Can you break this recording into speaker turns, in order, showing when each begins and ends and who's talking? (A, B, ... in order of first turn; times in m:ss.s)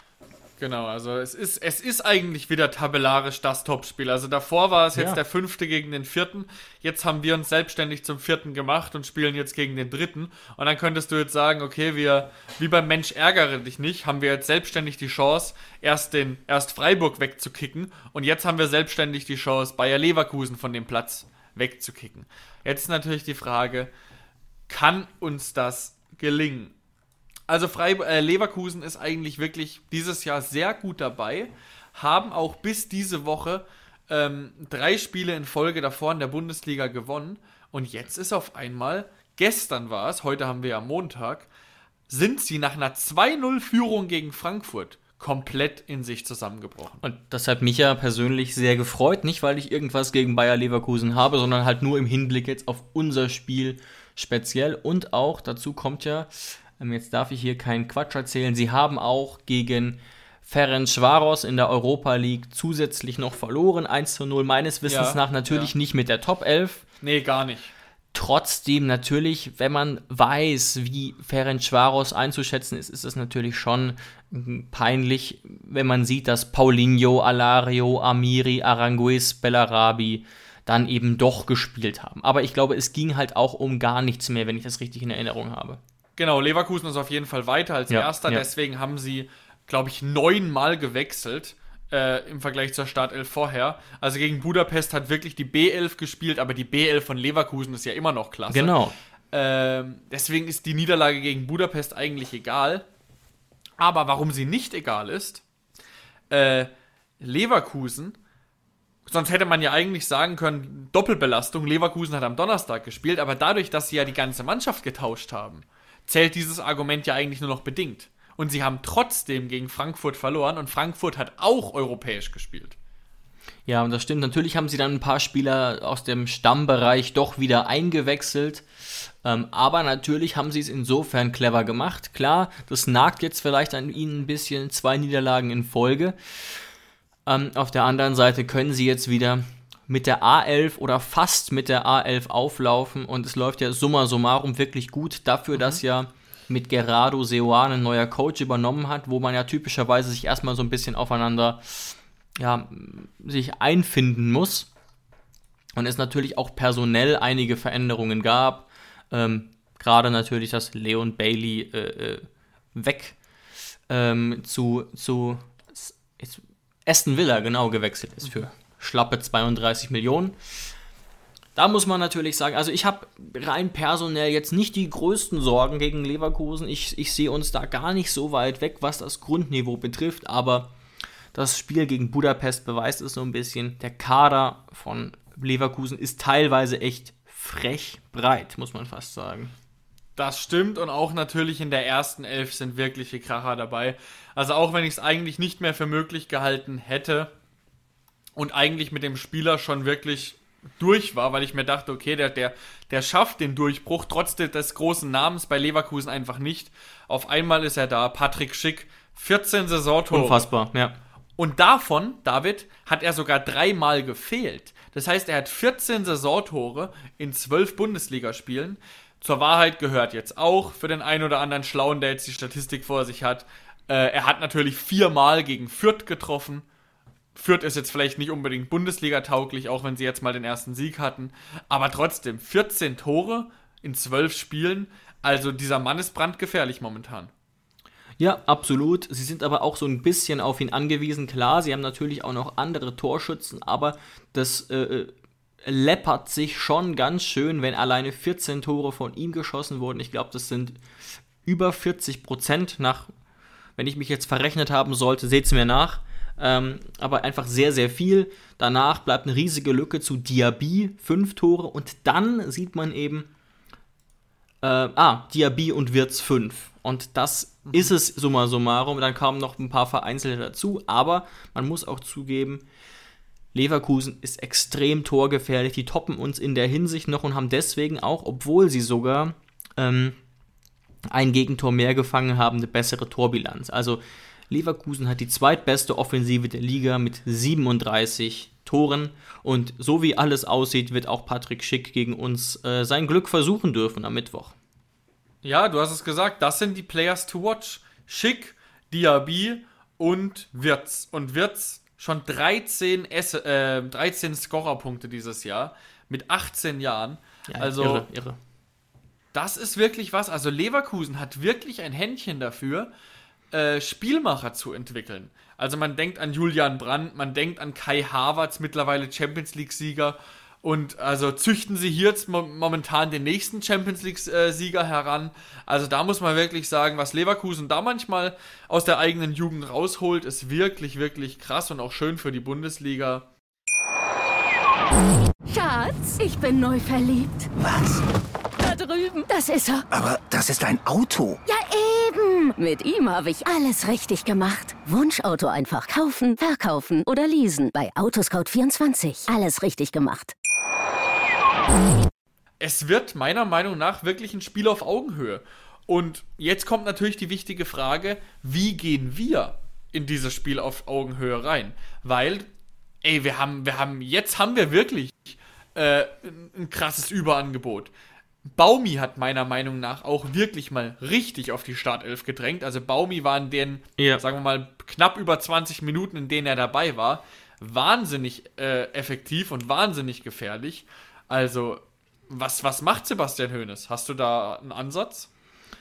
0:00.6-0:23.9 A
0:04.9-0:05.2 B
0:24.7-0:26.7 A
0:27.5-0:41.5 A
0:42.1-0:47.0 A
0:47.0-1:06.8 B
1:04.9-1:05.7 A
1:07.0-1:07.7 A
1:08.1-1:25.8 B
1:26.2-1:38.8 A
1:27.9-1:28.4 B
1:38.5-1:38.9 B
1:39.3-1:42.8 A
1:43.8-1:45.4 A
1:46.3-1:48.2 A
1:49.1-2:02.8 A
2:03.7-2:08.6 B
2:09.2-2:16.2 B
2:17.3-2:34.7 B
2:25.5-2:25.8 A
2:35.8-2:43.2 B
2:43.9-2:50.4 B
2:51.6-3:00.7 B
3:01.3-3:09.5 B
3:10.2-3:17.3 A
3:18.4-3:30.4 A
3:30.1-3:31.0 B
3:31.4-3:46.6 A
3:47.3-3:57.3 A
3:58.2-4:05.1 B
4:05.6-4:10.8 B
4:11.4-4:13.1 B
4:13.8-4:23.3 B
4:24.6-4:32.6 B
4:33.5-4:40.2 B
4:41.1-4:54.5 B
4:55.4-5:08.1 A
5:07.5-5:08.4 B
5:09.3-5:12.9 A
5:13.5-5:33.2 A
5:35.5-5:37.5 C
5:37.6-5:38.0 D
5:38.6-5:39.8 C
5:39.9-5:41.4 D
5:41.4-5:50.3 C
5:52.6-6:02.5 A
6:03.0-6:07.9 A
6:08.4-6:25.3 A
6:14.0-6:14.2 B